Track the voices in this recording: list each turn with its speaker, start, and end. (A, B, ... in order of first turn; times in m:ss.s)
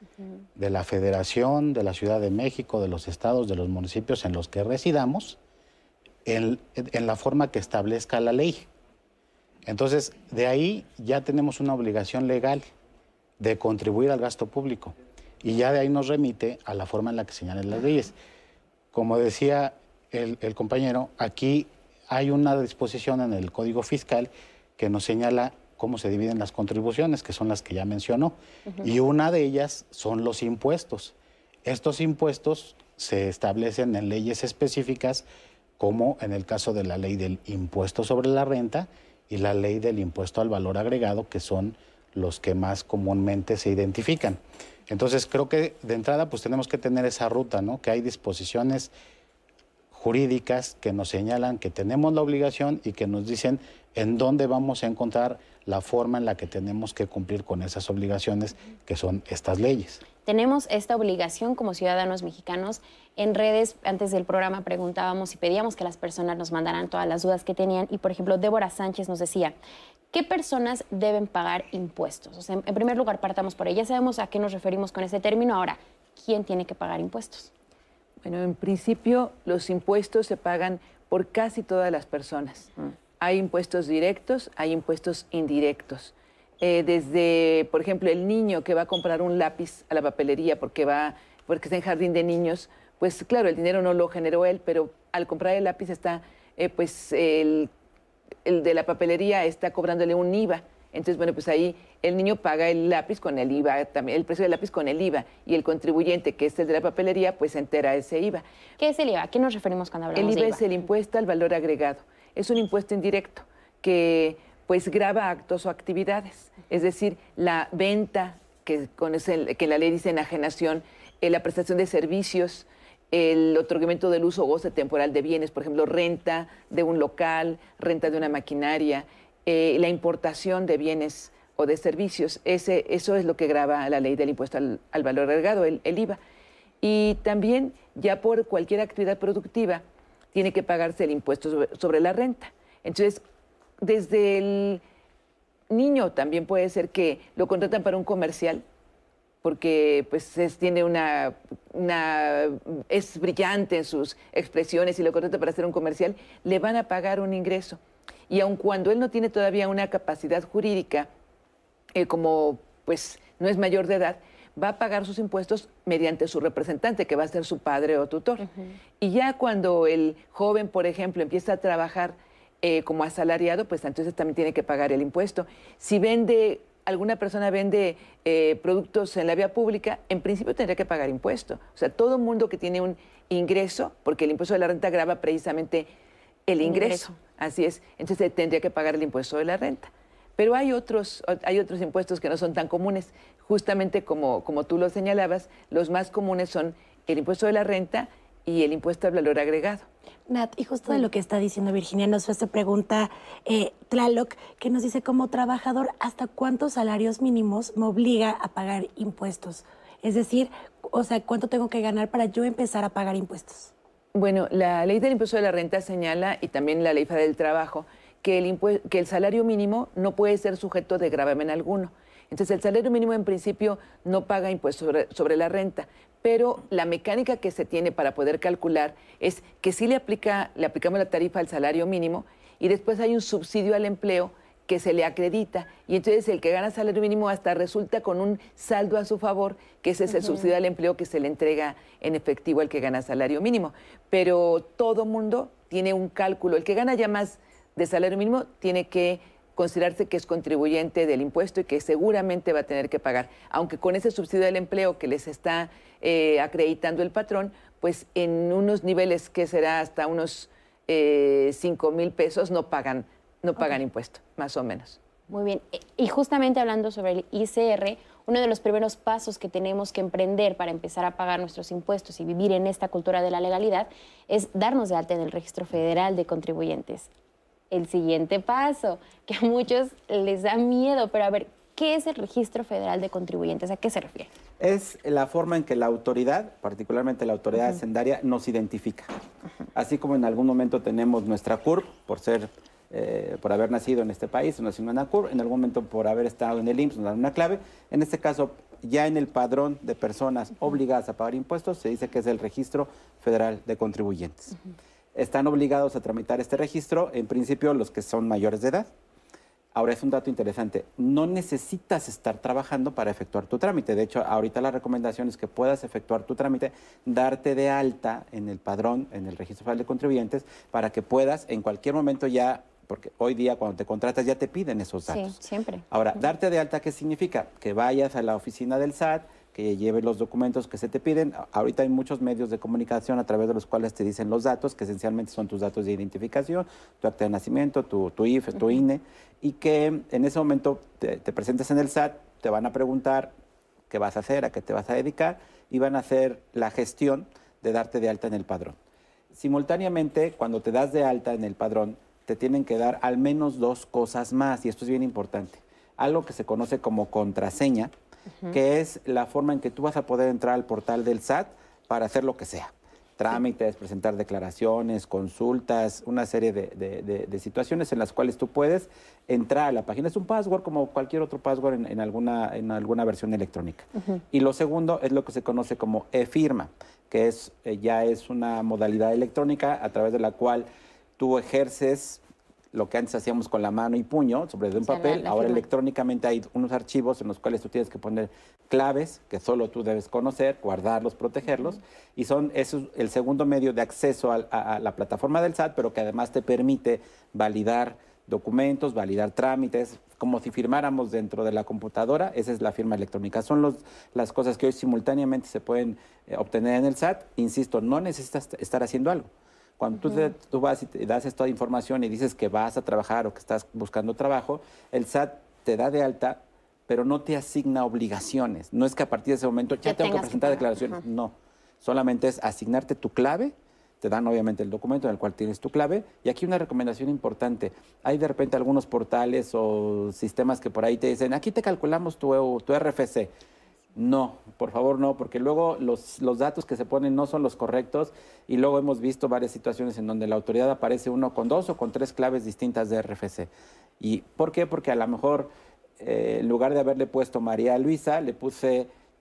0:00.6-0:05.4 A
0:06.2-0:08.7 A
0:09.6-0:12.6 A
0:13.4-0:18.1 A
0:18.9-0:35.2 A
0:35.8-0:48.9 A
0:49.9-1:00.0 A
1:00.2-1:09.6 B
1:10.1-1:17.5 B
1:18.2-1:22.7 C
1:23.2-1:37.7 C
1:38.4-1:48.4 C
1:48.8-1:50.6 B
1:50.1-2:16.2 C
2:16.8-2:23.2 C
2:23.8-2:24.8 C
2:25.7-2:28.6 C
2:29.4-2:41.1 C
2:42.0-2:48.4 C
2:48.4-2:48.7 B
2:49.0-3:05.9 C
3:06.5-3:19.8 C
3:06.6-3:07.1 B
3:20.3-3:33.7 D
3:34.1-4:25.0 C
4:00.1-4:00.5 B
4:25.3-4:37.1 B
4:37.7-4:44.3 B
4:44.6-4:49.1 E
4:49.7-5:04.5 E
5:05.1-5:08.9 E
5:09.7-5:25.4 E
5:25.1-5:25.9 B
5:25.9-5:43.3 E
5:43.9-5:48.8 E
5:49.3-5:57.9 E
5:58.5-6:20.7 E
6:21.2-7:13.3 E
6:24.8-6:25.7 B
6:59.8-7:01.0 B
7:13.9-7:28.9 E